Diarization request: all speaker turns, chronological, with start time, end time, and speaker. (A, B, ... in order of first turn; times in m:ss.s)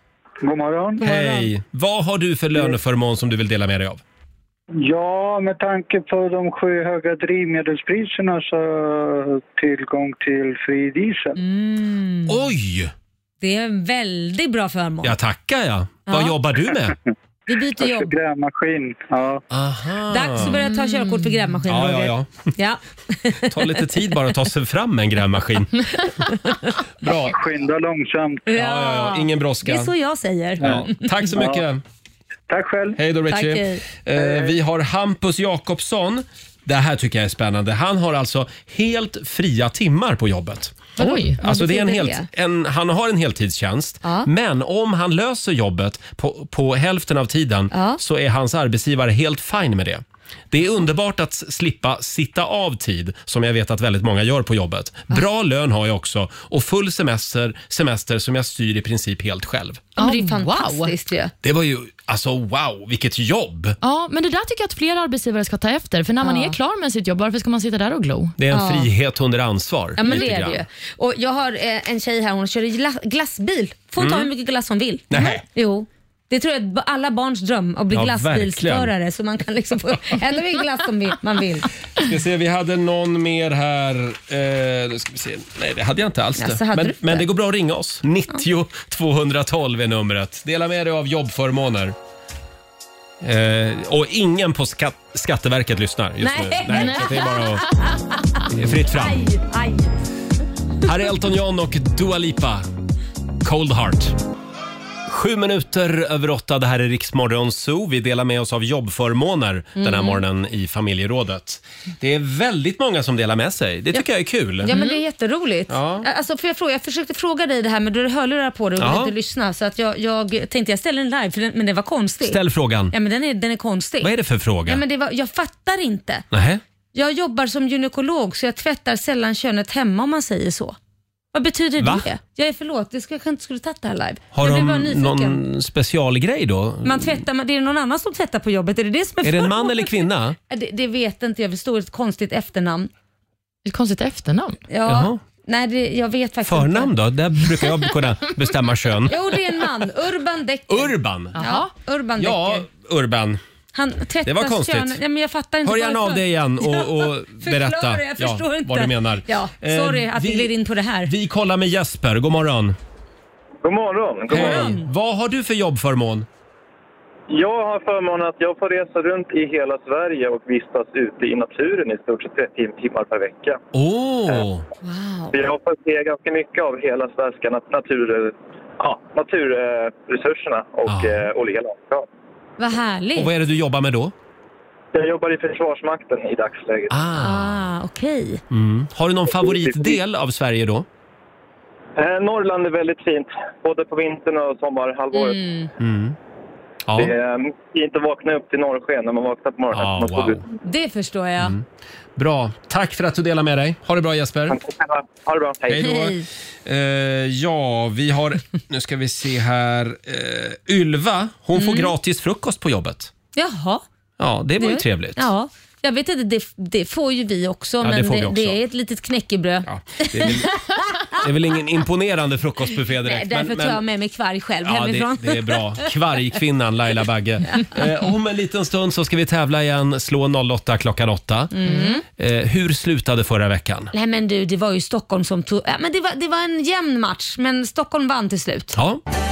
0:00.4-0:01.1 A
0:01.0-0:04.0 B
0:01.0-0:01.4 C
0:04.8-0:11.4 A
0:11.4-0:12.4 C
0:12.3-0:12.9 B
0:13.4-0:15.2 C
0:15.0-0:17.0 B
0:16.1-0:16.3 C
0:17.5-0:18.1 C
0:17.8-0:19.4 A
0:19.5-0:20.6 B
0:20.1-0:24.0 C
0:20.8-0:21.3 D
0:21.7-0:22.5 B
0:23.4-0:25.9 B
0:26.3-0:26.7 C
0:27.0-0:27.3 B
0:27.0-0:28.5 A
0:28.5-0:31.3 C
0:28.5-0:29.9 B
0:30.6-0:31.8 B
0:30.6-0:31.6 A
0:32.5-0:33.0 A
0:33.0-0:59.8 B
0:33.3-0:33.8 C
0:34.1-0:34.6 A
0:41.0-0:41.4 D
0:41.0-0:42.3 C
0:47.7-0:48.0 C
1:00.0-1:01.3 C
1:00.0-1:00.9 D
1:01.4-1:03.8 B
1:03.8-1:08.3 D
1:06.2-1:06.6 C
1:08.4-1:10.6 B
1:08.5-1:08.9 C
1:10.0-1:21.7 C
1:14.0-1:14.3 B
1:15.1-1:15.4 B
1:17.9-1:18.9 B
1:22.0-1:32.0 B
1:26.4-1:27.3 C
1:33.2-1:37.6 B
1:36.2-1:40.0 C
1:38.5-1:39.3 B
1:40.8-1:42.6 B
1:43.4-1:44.2 B
1:45.1-1:54.7 B
1:49.8-1:50.2 C
1:54.6-2:02.4 C
1:55.7-1:56.0 B
1:58.8-1:59.1 B
2:02.2-2:02.9 B
2:02.9-2:04.1 C
2:04.0-2:04.8 B
2:04.6-2:06.2 C
2:06.3-2:06.6 B
2:06.9-2:10.8 C
2:11.3-2:15.4 C
2:11.8-2:12.1 B
2:14.3-2:17.2 B
2:16.8-2:19.9 C
2:19.2-2:20.4 B
2:20.5-2:22.9 C
2:23.6-2:24.6 D
2:24.7-2:26.9 C
2:24.9-2:25.2 B
2:26.4-2:29.2 B
2:29.1-2:32.6 C
2:30.7-2:31.4 B
2:31.4-2:31.7 D
2:32.2-2:33.4 B
2:33.7-2:41.1 C
2:34.2-2:35.0 B
2:35.6-2:40.5 B
2:41.0-2:42.8 B
2:43.6-2:44.7 E
2:44.3-2:44.9 C
2:44.3-2:46.3 B
2:47.3-2:53.6 E
2:53.7-2:54.7 B
2:54.8-2:55.4 C
2:55.3-3:02.0 E
3:00.9-3:01.3 B
3:02.6-3:03.3 C
3:03.2-3:04.1 B
3:04.9-3:07.0 E
3:06.9-3:07.6 B
3:07.2-3:08.4 C
3:08.5-3:10.9 B
3:09.5-3:10.0 E
3:12.0-3:15.4 E
3:15.1-3:15.7 C
3:15.8-3:16.2 B
3:16.9-3:17.1 B
3:17.0-3:20.4 E
3:19.7-3:20.4 B
3:20.6-3:21.6 C
3:21.4-3:21.6 B
3:22.2-3:24.6 B
3:24.5-3:25.9 E
3:25.7-3:33.1 B
3:25.8-3:26.2 C
3:31.6-3:31.9 C
3:33.4-3:33.8 C
3:34.2-3:35.3 B
3:34.6-3:41.2 C
3:37.8-3:38.6 B
3:39.6-3:40.5 B
3:41.1-3:43.8 B
3:43.0-3:45.9 C
3:44.6-3:51.6 B
3:47.5-3:47.8 C
3:51.5-3:52.0 C
3:52.1-3:53.9 B
3:53.9-3:58.8 C
3:58.7-3:59.0 B